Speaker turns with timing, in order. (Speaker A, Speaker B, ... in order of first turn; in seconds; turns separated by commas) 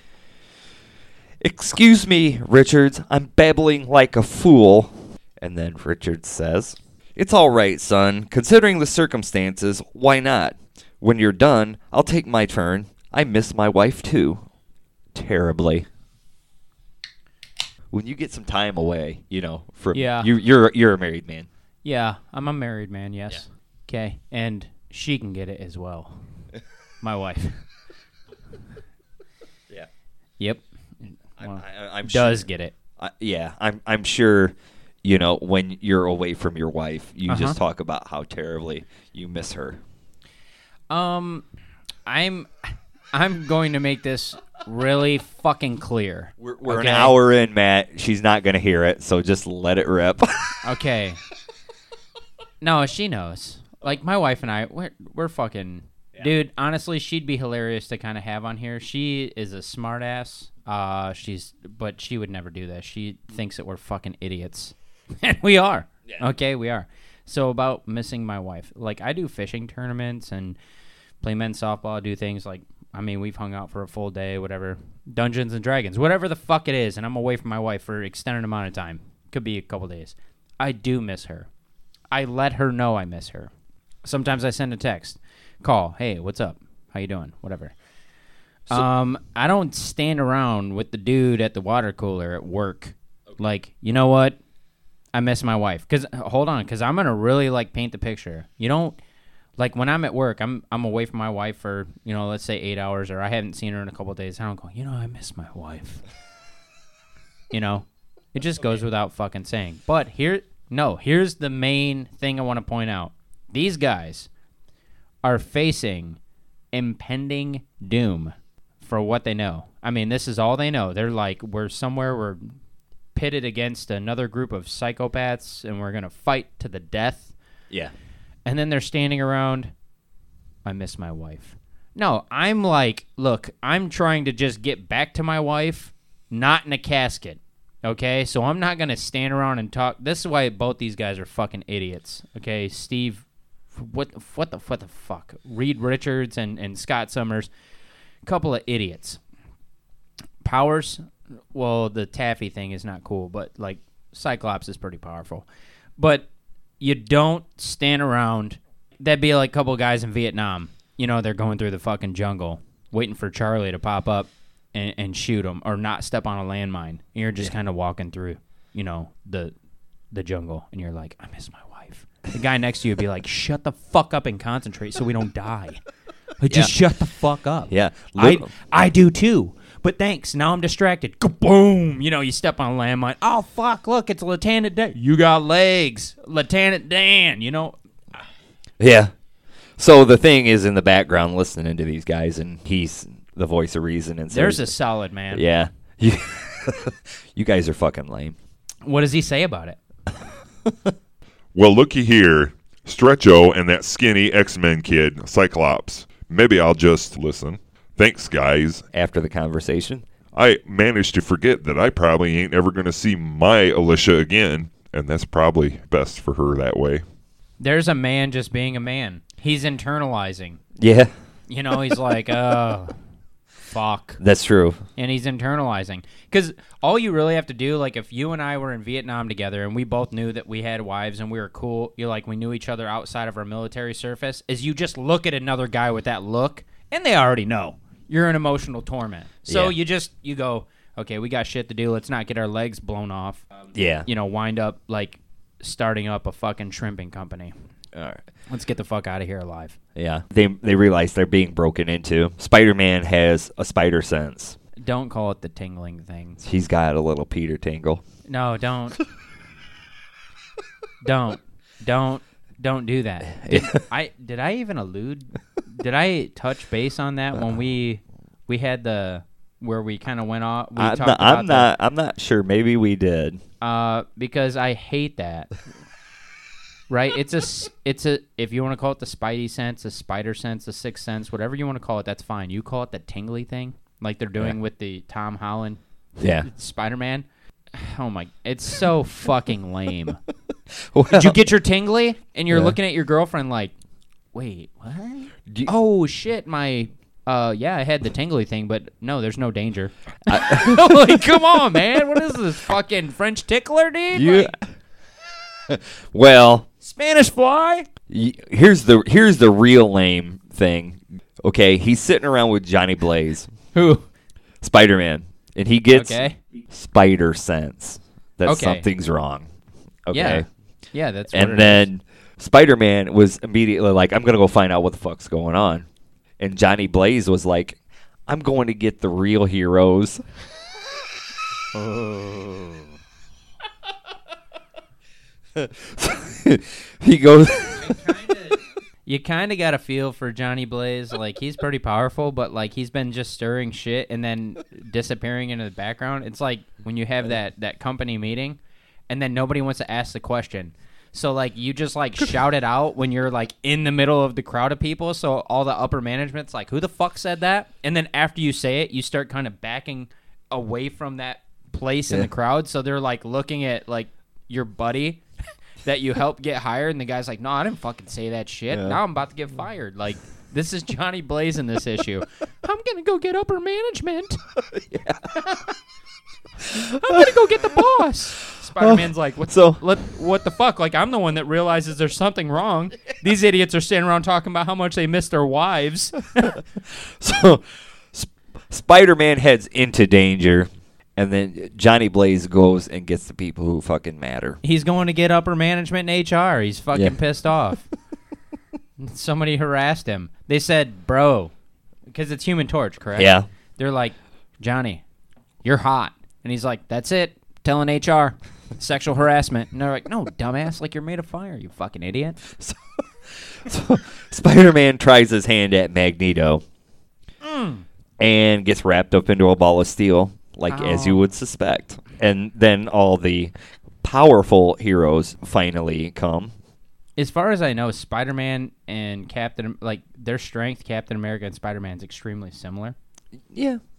Speaker A: 1.4-14.5, Speaker A: 15.1-15.9, Speaker A: 17.9-21.5, Speaker B: 19.9-20.3, Speaker B: 21.8-26.2, Speaker B: 27.0-27.6, Speaker B: 30.4-32.8, Speaker A: 31.4-39.8, Speaker B: 37.3-37.6, Speaker B: 40.9-41.5, Speaker B: 42.1-47.1, Speaker A: 46.4-50.6, Speaker B: 50.6-51.2, Speaker B: 52.6-70.6, Speaker B: 71.2-81.5, Speaker B: 82.1-83.5, Speaker B: 84.0-87.7, Speaker B: 88.7-94.4, Speaker B: 95.1-99.0, Speaker B: 99.6-106.0, Speaker B: 107.5-114.3, Speaker B: 115.2-116.2, Speaker B: 116.7-122.5, Speaker B: 123.2-127.3, Speaker B: 128.4-129.7, Speaker B: 130.7-147.5, Speaker B: 148.2-149.2, Speaker B: 150.4-156.3, Speaker B: 156.8-169.5, Speaker B: 170.1-175.8, Speaker B: 176.4-187.8, Speaker A: 177.7-178.5, Speaker A: 188.8-189.1, Speaker A: 189.8-194.7, Speaker B: 194.3-195.4, Speaker A: 195.3-198.4, Speaker B: 198.8-199.8, Speaker C: 201.5-208.9, Speaker A: 208.9-210.1, Speaker C: 210.3-217.0, Speaker B: 217.6-220.6, Speaker A: 220.8-221.1, Speaker B: 221.5-222.9, Speaker B: 223.7-224.2, Speaker A: 224.2-224.8, Speaker B: 225.0-243.4, Speaker A: 239.5-239.8, Speaker A: 243.7-244.1, Speaker B: 244.1-247.5, Speaker A: 247.9-248.2, Speaker B: 248.5-249.8, Speaker A: 249.9-254.6, Speaker B: 254.8-256.4, Speaker A: 256.4-258.0, Speaker B: 258.3-259.0, Speaker B: 261.0-271.7, Speaker A: 263.3-263.8, Speaker A: 270.8-273.4, Speaker B: 273.6-275.5, Speaker B: 276.9-285.8, Speaker A: 286.2-286.5, Speaker B: 286.4-290.2, Speaker A: 290.7-291.4, Speaker B: 291.1-293.7, Speaker A: 292.5-292.8, Speaker B: 294.3-304.5, Speaker A: 300.3-301.2, Speaker A: 304.1-304.7, Speaker A: 305.7-306.7, Speaker B: 306.8-307.9, Speaker A: 308.1-313.5, Speaker B: 313.7-314.1, Speaker A: 314.6-319.5, Speaker B: 315.9-316.4, Speaker B: 318.5-318.9, Speaker A: 320.1-320.5, Speaker B: 320.1-321.9, Speaker A: 321.3-325.9, Speaker A: 326.4-330.2, Speaker B: 331.7-332.9, Speaker A: 335.6-338.0, Speaker B: 337.7-365.2, Speaker B: 365.9-374.4, Speaker A: 368.7-369.0, Speaker A: 374.7-375.3, Speaker B: 375.4-375.7, Speaker B: 376.7-386.6, Speaker A: 376.7-377.9, Speaker A: 378.8-379.8, Speaker A: 386.8-394.6, Speaker B: 394.6-397.9, Speaker B: 399.0-401.5, Speaker B: 402.1-405.0, Speaker A: 403.2-403.5, Speaker B: 405.6-412.4, Speaker A: 412.5-416.6, Speaker B: 417.4-417.9, Speaker A: 418.2-426.5, Speaker B: 420.7-421.3, Speaker B: 427.2-433.0, Speaker A: 433.5-433.8